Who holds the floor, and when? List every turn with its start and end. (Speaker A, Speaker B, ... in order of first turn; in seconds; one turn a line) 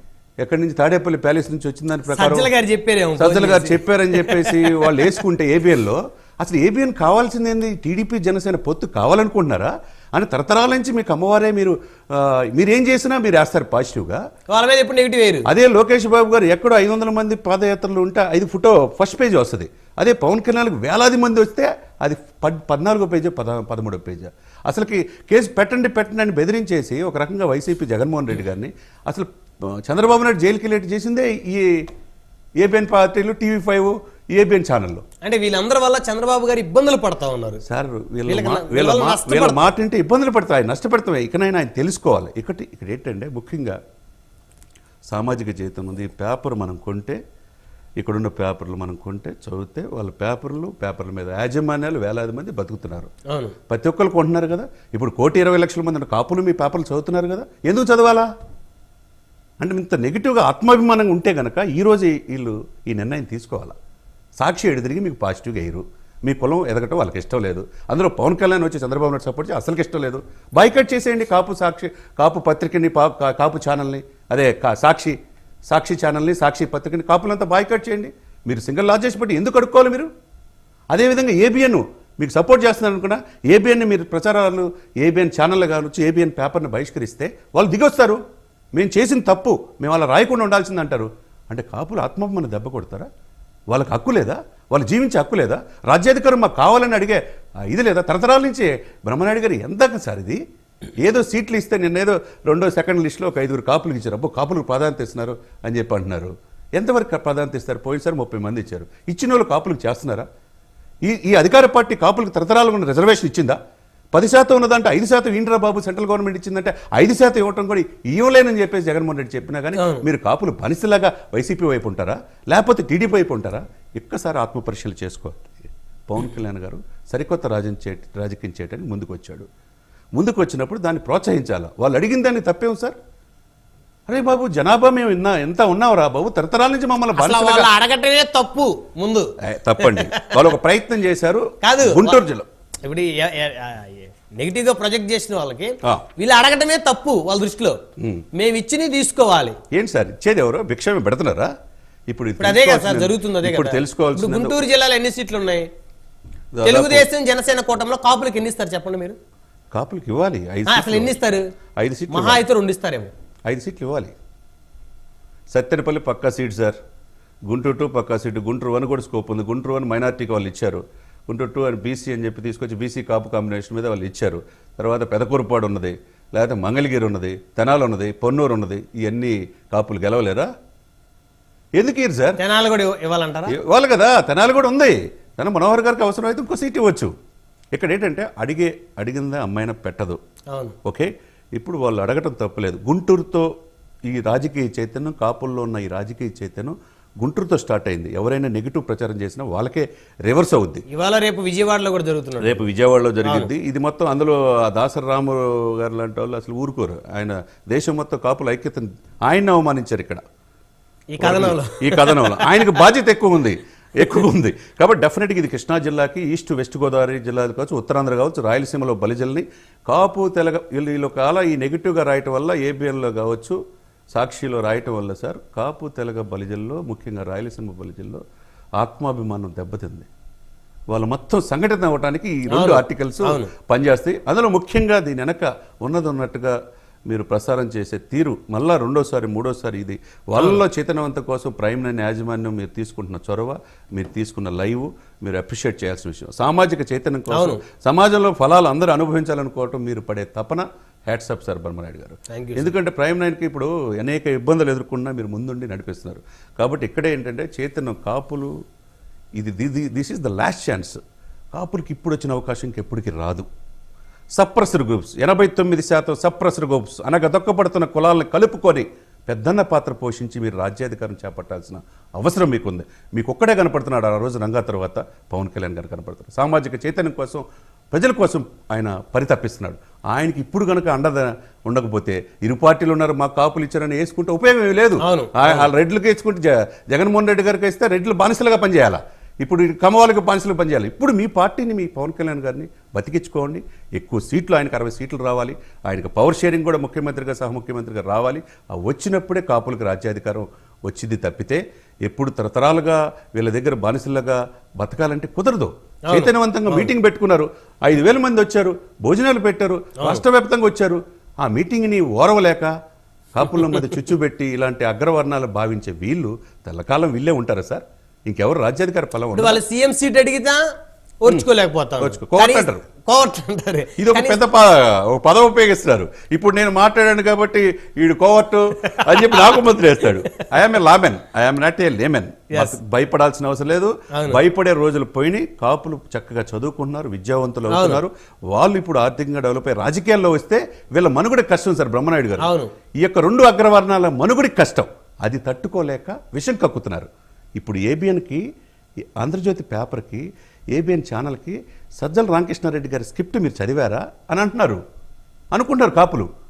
Speaker A: 0.4-2.5
Speaker B: 2.1-5.1
Speaker A: 3.2-14.2
Speaker B: 14.5-15.4
Speaker A: 15.5-31.9
Speaker A: 32.6-35.0
Speaker B: 35.2-37.6
Speaker A: 37.6-43.8
Speaker B: 38.3-39.6
Speaker A: 45.1-47.2
Speaker A: 48.0-53.1
Speaker B: 53.3-53.5
Speaker A: 53.7-58.3
Speaker A: 59.6-63.7
Speaker A: 64.4-75.2
Speaker A: 75.7-80.1
Speaker A: 80.9-88.2
Speaker A: 88.7-93.1
Speaker A: 93.7-100.4
Speaker A: 101.0-110.2
Speaker A: 111.0-113.6
Speaker A: 114.1-129.5
Speaker B: 119.8-120.0
Speaker A: 130.2-132.9
Speaker A: 134.1-137.7
Speaker B: 137.2-140.4
Speaker A: 139.4-142.5
Speaker B: 141.6-142.2
Speaker B: 142.8-147.8
Speaker A: 148.0-148.2
Speaker B: 148.3-149.6
Speaker A: 149.7-151.5
Speaker A: 152.1-154.6
Speaker B: 152.4-155.7
Speaker A: 156.5-157.1
Speaker B: 156.6-159.2
Speaker A: 159.7-161.1
Speaker B: 160.7-161.4
Speaker A: 161.8-162.4
Speaker B: 162.1-163.1
Speaker A: 163.5-164.1
Speaker A: 165.5-166.8
Speaker A: 167.5-180.5
Speaker A: 181.8-182.3
Speaker B: 182.4-183.6
Speaker A: 183.5-187.1
Speaker A: 187.7-190.2
Speaker A: 190.8-193.5
Speaker A: 194.1-200.8
Speaker B: 200.9-202.6
Speaker A: 202.4-210.2
Speaker B: 211.1-212.7
Speaker A: 211.2-223.6
Speaker A: 224.1-228.2
Speaker A: 228.8-230.1
Speaker A: 230.9-236.5
Speaker B: 232.5-233.5
Speaker A: 237.1-258.5
Speaker B: 240.4-240.6
Speaker B: 247.3-247.6
Speaker B: 252.3-252.7
Speaker A: 259.4-261.0
Speaker A: 261.5-263.4
Speaker A: 264.3-312.7
Speaker B: 285.0-285.7
Speaker B: 306.1-306.9
Speaker A: 313.3-319.6
Speaker B: 313.5-314.0
Speaker B: 319.4-320.6
Speaker B: 321.2-324.4
Speaker A: 322.0-322.8
Speaker A: 324.0-348.4
Speaker B: 328.9-330.4
Speaker B: 334.1-334.4
Speaker B: 337.7-338.0
Speaker B: 342.4-342.7
Speaker A: 349.2-354.8
Speaker A: 355.5-356.3